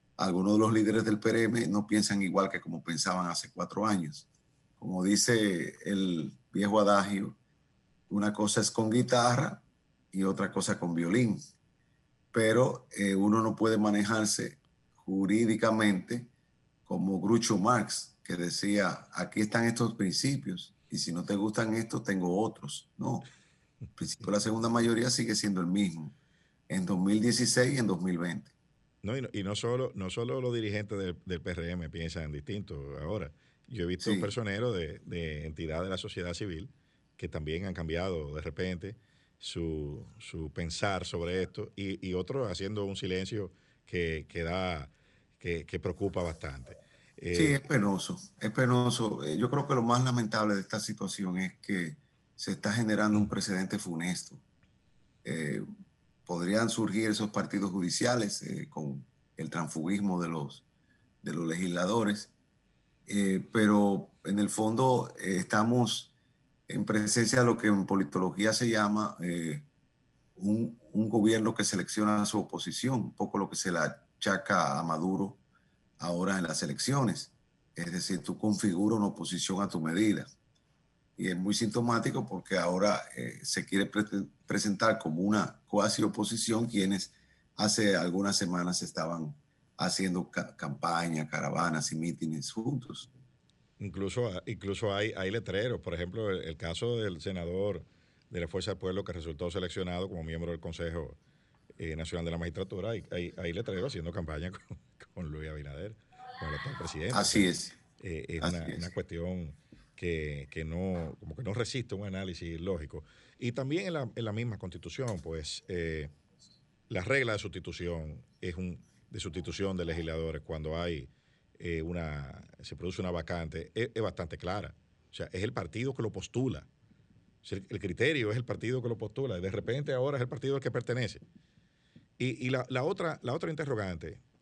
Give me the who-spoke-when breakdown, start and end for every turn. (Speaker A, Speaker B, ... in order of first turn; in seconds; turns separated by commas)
Speaker A: 0.2-4.3, Speaker A: 4.8-7.3, Speaker A: 8.1-11.4, Speaker A: 12.3-16.3, Speaker A: 16.9-23.2, Speaker A: 24.0-26.1, Speaker A: 26.7-28.5, Speaker B: 29.0-47.6, Speaker A: 34.0-34.3, Speaker A: 47.3-54.4, Speaker A: 55.2-55.6, Speaker A: 56.2-60.6, Speaker A: 61.2-62.3, Speaker A: 63.1-66.1, Speaker A: 66.7-69.7, Speaker A: 70.4-75.4, Speaker A: 76.0-80.3, Speaker A: 81.2-93.1, Speaker B: 93.8-101.2, Speaker B: 101.8-116.1, Speaker A: 107.1-107.7, Speaker A: 108.4-108.9, Speaker B: 116.9-126.7, Speaker B: 127.4-131.2, Speaker B: 132.2-134.2